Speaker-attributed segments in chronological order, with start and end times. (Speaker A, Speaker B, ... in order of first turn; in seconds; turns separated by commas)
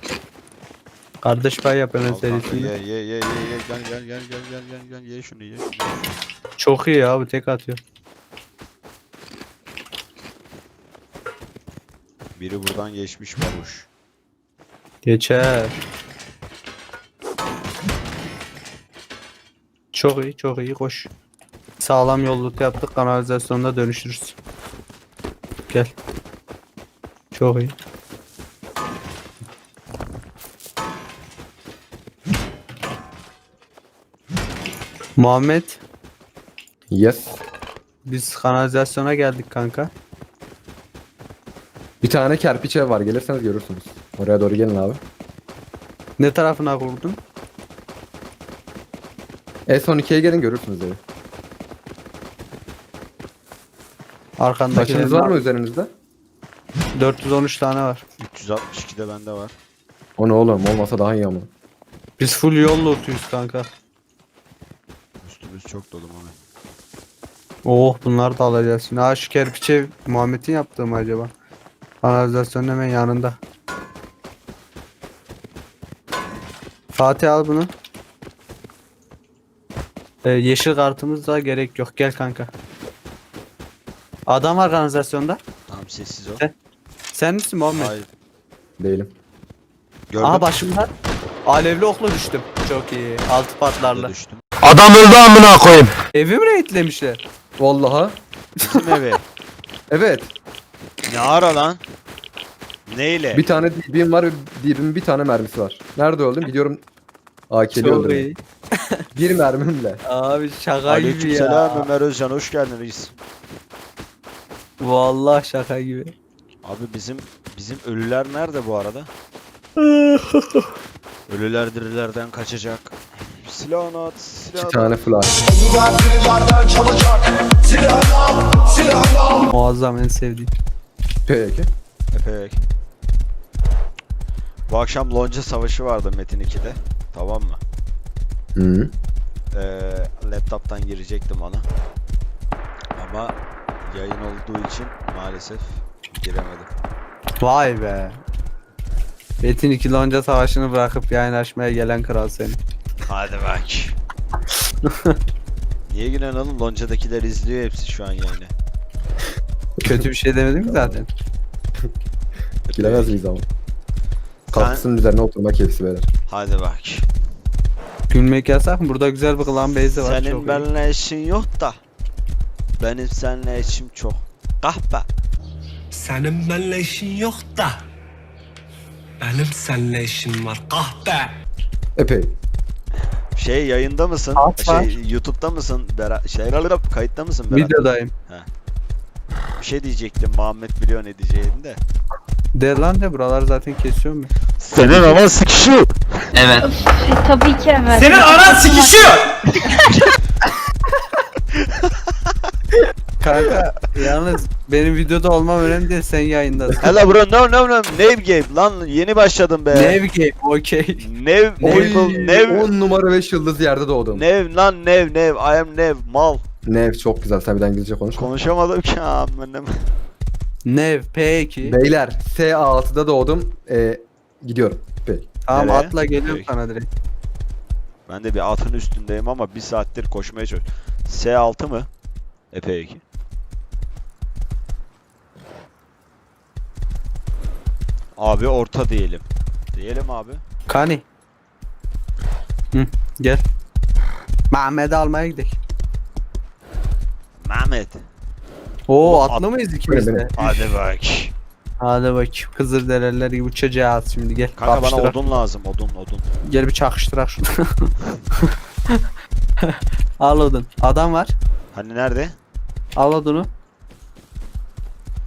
Speaker A: 1.2-2.7, Speaker B: 2.0-6.1, Speaker A: 6.6-7.8, Speaker B: 12.4-13.9, Speaker A: 15.0-15.8, Speaker A: 19.9-21.1, Speaker A: 21.8-24.4, Speaker A: 27.3-27.7, Speaker A: 35.2-35.8, Speaker C: 36.9-37.4, Speaker A: 38.0-39.9, Speaker C: 42.0-45.0, Speaker A: 46.2-47.2, Speaker C: 49.7-51.0, Speaker A: 54.4-55.3, Speaker C: 54.7-55.9, Speaker A: 56.9-58.0, Speaker B: 58.2-59.5, Speaker C: 60.2-61.5, Speaker A: 62.2-63.7, Speaker B: 65.2-66.3, Speaker A: 67.6-71.3, Speaker A: 72.0-73.4, Speaker A: 76.9-77.7, Speaker A: 80.2-82.5, Speaker A: 84.3-85.4, Speaker B: 85.7-86.4, Speaker A: 87.1-87.9, Speaker B: 87.7-88.1, Speaker C: 88.8-89.1, Speaker B: 90.1-90.5, Speaker A: 90.2-90.9, Speaker A: 91.5-94.1, Speaker B: 93.9-94.4, Speaker A: 96.1-97.2, Speaker C: 97.6-98.2, Speaker B: 98.6-99.2, Speaker C: 99.9-100.3, Speaker B: 101.1-101.8, Speaker B: 102.9-103.4, Speaker C: 103.3-106.8, Speaker C: 107.5-108.2, Speaker A: 107.7-108.4, Speaker C: 109.1-110.0, Speaker A: 110.1-111.9, Speaker B: 110.8-113.1, Speaker A: 114.8-116.1, Speaker B: 116.6-119.1, Speaker A: 119.8-120.7, Speaker B: 121.3-125.0, Speaker C: 124.5-125.3, Speaker B: 125.7-127.0, Speaker A: 129.3-130.5, Speaker C: 131.2-131.7, Speaker B: 132.1-132.6, Speaker B: 134.7-137.6, Speaker C: 138.5-138.9, Speaker B: 139.5-141.7, Speaker B: 142.9-146.7, Speaker A: 147.4-148.2, Speaker A: 149.4-152.6, Speaker B: 153.0-153.9, Speaker A: 154.8-155.2, Speaker B: 155.9-158.5, Speaker A: 159.8-161.1, Speaker C: 160.7-161.0, Speaker B: 162.7-163.2, Speaker C: 162.7-163.4, Speaker B: 164.5-164.8, Speaker C: 164.5-166.1, Speaker B: 166.3-167.0, Speaker A: 168.1-170.7, Speaker B: 169.9-171.8, Speaker B: 172.8-175.1, Speaker D: 175.9-177.8, Speaker D: 179.2-181.3, Speaker C: 181.9-182.3, Speaker B: 183.3-187.7, Speaker A: 184.4-184.9, Speaker A: 187.5-188.1, Speaker B: 189.6-191.8, Speaker A: 192.5-194.3, Speaker B: 194.6-196.6, Speaker E: 196.4-199.2, Speaker A: 197.9-199.2, Speaker A: 203.2-206.9, Speaker B: 206.8-210.0, Speaker A: 209.7-211.0, Speaker B: 211.0-212.7, Speaker A: 211.6-212.3, Speaker C: 211.6-214.2, Speaker B: 214.1-216.4, Speaker C: 216.7-218.3, Speaker B: 218.1-219.7, Speaker A: 220.7-221.8, Speaker C: 221.6-225.3, Speaker A: 225.4-226.8, Speaker B: 225.5-226.5, Speaker B: 228.1-231.9, Speaker B: 232.5-233.0, Speaker B: 238.2-240.4, Speaker A: 240.7-241.0, Speaker A: 242.7-243.4, Speaker A: 244.5-245.6, Speaker B: 247.4-248.0, Speaker A: 248.9-250.6, Speaker B: 249.0-249.4, Speaker C: 249.9-250.2, Speaker B: 250.4-251.3, Speaker A: 251.8-255.2, Speaker B: 254.6-256.3, Speaker A: 256.4-257.9, Speaker A: 258.5-259.0, Speaker A: 259.6-261.3, Speaker B: 261.7-262.4, Speaker A: 263.0-263.5